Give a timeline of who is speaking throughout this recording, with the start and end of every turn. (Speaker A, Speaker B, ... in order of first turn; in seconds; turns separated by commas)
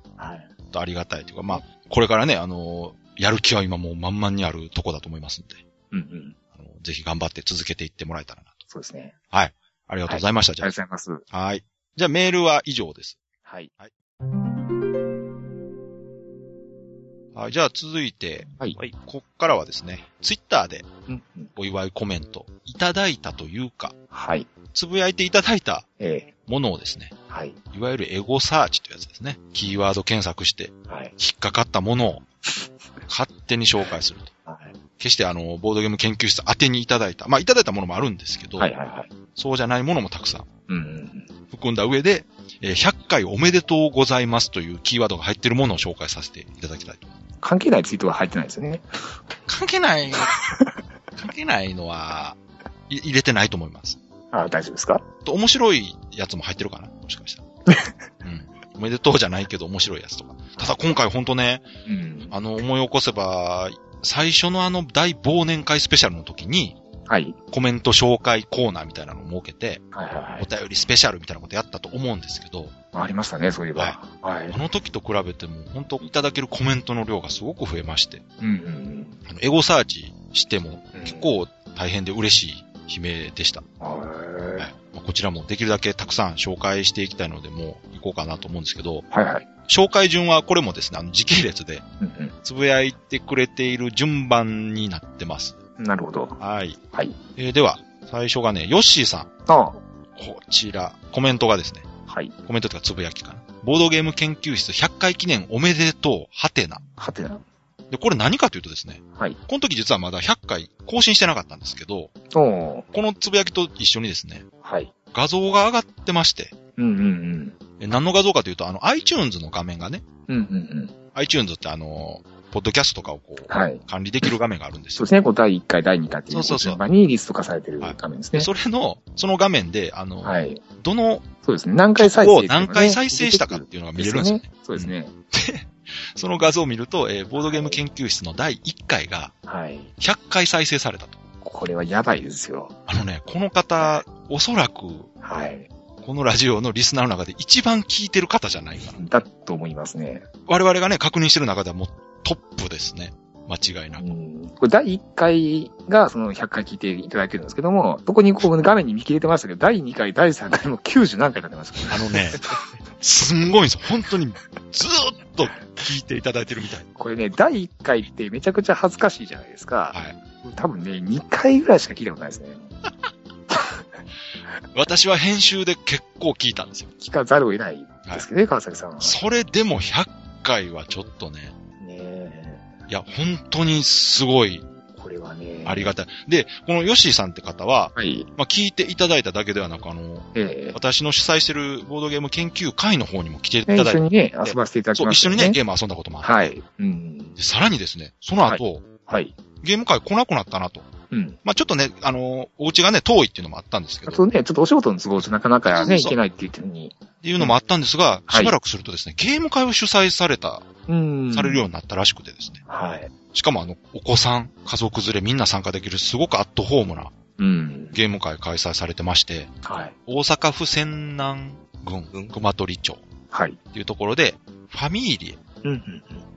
Speaker A: 0.2-0.5, Speaker B: 0.7-5.6, Speaker A: 5.9-6.3, Speaker B: 6.5-8.6, Speaker A: 8.7-9.1, Speaker B: 9.3-10.7, Speaker A: 10.1-11.2, Speaker B: 11.3-13.2, Speaker A: 13.4-13.7, Speaker B: 17.3-20.9, Speaker A: 21.1-21.5, Speaker B: 21.6-23.9, Speaker A: 24.1-24.5, Speaker B: 24.7-25.8, Speaker A: 26.0-26.3, Speaker B: 26.4-27.1, Speaker A: 27.3-27.6, Speaker B: 27.7-32.2, Speaker A: 30.9-31.1, Speaker B: 33.1-34.3, Speaker A: 34.5-34.7, Speaker B: 35.0-38.7, Speaker A: 38.6-39.1, Speaker B: 39.4-40.5, Speaker A: 40.7-41.3, Speaker B: 41.5-47.1, Speaker A: 47.4-48.8, Speaker B: 49.5-50.4, Speaker B: 51.1-52.4, Speaker B: 52.9-54.0, Speaker A: 54.3-55.0, Speaker B: 55.2-57.4, Speaker A: 57.7-57.9, Speaker B: 58.2-61.6, Speaker A: 61.9-62.3, Speaker B: 62.3-66.8, Speaker A: 67.1-67.3, Speaker B: 67.5-69.8, Speaker A: 69.9-70.5, Speaker B: 70.4-72.7, Speaker A: 72.9-74.6, Speaker B: 74.5-78.2, Speaker A: 78.4-79.2, Speaker B: 79.2-83.6, Speaker A: 80.9-81.3, Speaker A: 83.8-84.7, Speaker B: 84.6-89.0, Speaker A: 89.1-89.5, Speaker B: 89.7-91.8, Speaker A: 92.0-92.3, Speaker B: 92.4-95.5, Speaker A: 95.8-96.4, Speaker B: 96.4-96.8, Speaker B: 97.3-99.3, Speaker A: 99.5-99.8, Speaker B: 100.2-101.9, Speaker A: 102.1-102.3, Speaker B: 102.5-106.8, Speaker A: 107.0-107.4, Speaker B: 107.9-112.1, Speaker A: 112.3-112.8, Speaker B: 112.9-114.5, Speaker A: 114.6-114.9, Speaker B: 115.1-116.5, Speaker A: 116.8-117.5, Speaker B: 117.8-120.0, Speaker A: 120.3-120.9, Speaker B: 121.1-125.0, Speaker A: 123.5-123.8, Speaker A: 125.0-128.5, Speaker B: 126.3-126.8, Speaker B: 127.8-131.2, Speaker A: 130.2-130.6, Speaker A: 131.4-135.1, Speaker B: 131.9-139.3, Speaker A: 137.4-137.8, Speaker A: 139.4-139.9, Speaker B: 140.0-141.2, Speaker A: 141.4-142.7, Speaker B: 142.9-145.1, Speaker A: 143.8-144.0, Speaker A: 145.2-145.7, Speaker B: 146.0-149.1, Speaker A: 148.9-150.2, Speaker B: 150.5-154.0, Speaker A: 154.0-162.4, Speaker B: 161.9-162.4, Speaker B: 163.0-166.9, Speaker A: 166.9-172.7, Speaker B: 174.7-176.9, Speaker A: 177.0-179.2, Speaker B: 179.0-181.5, Speaker A: 181.8-182.7, Speaker B: 182.9-184.7, Speaker A: 184.9-185.9, Speaker B: 185.6-196.5, Speaker A: 187.9-188.3, Speaker A: 190.3-190.8, Speaker A: 193.7-195.6, Speaker A: 196.2-197.3, Speaker B: 197.4-198.8, Speaker A: 198.4-199.3, Speaker B: 199.6-200.9, Speaker A: 201.1-201.4, Speaker B: 201.4-204.2, Speaker A: 204.1-207.5, Speaker B: 205.7-206.2, Speaker B: 207.2-210.7, Speaker A: 208.3-208.5, Speaker A: 210.9-211.6, Speaker B: 211.3-212.6, Speaker A: 212.7-213.1, Speaker B: 213.3-217.1, Speaker A: 217.4-217.9, Speaker B: 217.9-223.0, Speaker A: 219.6-219.9, Speaker A: 223.3-223.6, Speaker B: 223.7-225.4, Speaker A: 225.6-226.2